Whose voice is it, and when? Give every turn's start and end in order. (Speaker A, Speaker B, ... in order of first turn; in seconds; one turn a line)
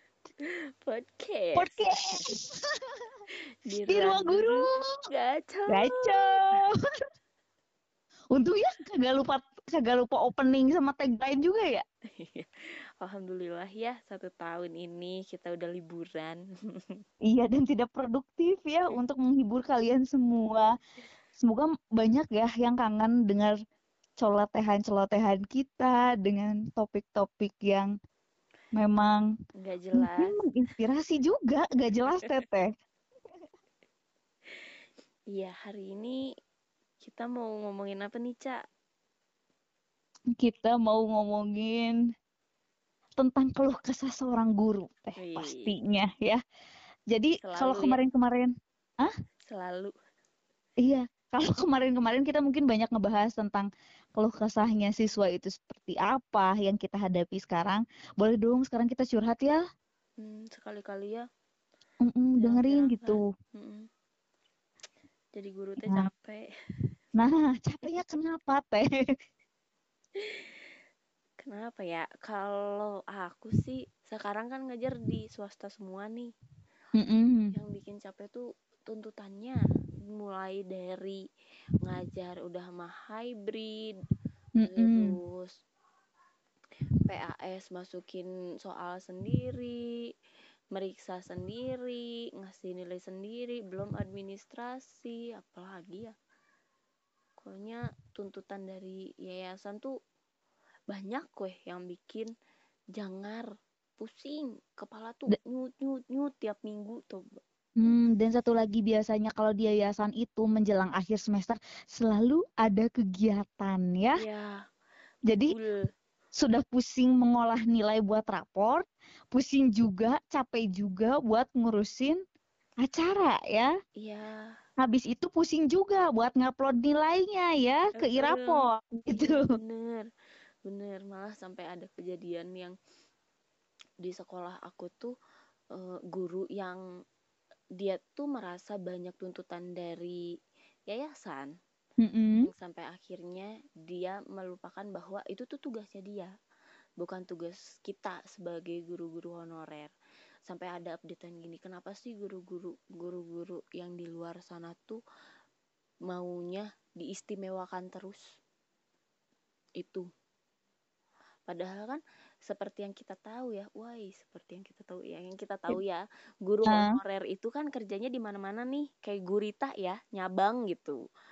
Speaker A: 0.4-2.3
Speaker B: 1.6-3.1
Speaker A: 3.6-6.6
Speaker B: 3.9-4.8
Speaker B: 5.7-6.7
Speaker B: 8.3-11.8
Speaker A: 12.2-17.0
Speaker B: 17.3-20.7
Speaker B: 21.4-23.5
Speaker B: 24.2-27.9
Speaker B: 28.7-29.3
Speaker A: 29.6-30.3
Speaker B: 30.0-32.7
Speaker A: 35.3-36.2
Speaker A: 37.0-38.6
Speaker B: 40.4-42.0
Speaker B: 43.2-46.4
Speaker A: 45.2-45.8
Speaker B: 47.1-49.1
Speaker A: 47.4-48.0
Speaker A: 49.5-49.9
Speaker B: 50.8-59.6
Speaker A: 60.2-61.2
Speaker B: 62.0-63.3
Speaker A: 62.4-63.9
Speaker A: 65.3-66.5
Speaker B: 67.2-69.0
Speaker A: 70.2-70.5
Speaker A: 71.4-76.3
Speaker B: 77.0-77.5
Speaker A: 77.5-79.6
Speaker A: 80.1-81.2
Speaker A: 81.8-83.9
Speaker B: 84.6-85.1
Speaker A: 84.7-85.5
Speaker A: 87.0-89.9
Speaker A: 90.7-96.1
Speaker A: 97.4-99.9
Speaker A: 100.9-102.3
Speaker A: 103.0-103.5
Speaker A: 104.0-107.4
Speaker B: 107.8-114.2
Speaker A: 114.2-114.6
Speaker B: 115.3-115.5
Speaker A: 115.5-115.8
Speaker B: 116.3-122.2
Speaker B: 122.8-123.7
Speaker A: 124.0-124.5
Speaker B: 124.8-129.5
Speaker A: 128.0-130.1
Speaker A: 130.7-132.8
Speaker A: 134.0-135.1
Speaker A: 135.7-136.8
Speaker A: 137.8-140.2
Speaker A: 140.9-141.5
Speaker B: 142.0-142.5
Speaker A: 142.4-146.3
Speaker A: 147.0-149.9
Speaker A: 150.5-155.0
Speaker A: 156.1-158.2
Speaker A: 159.8-160.1
Speaker A: 161.5-171.0
Speaker B: 166.7-167.0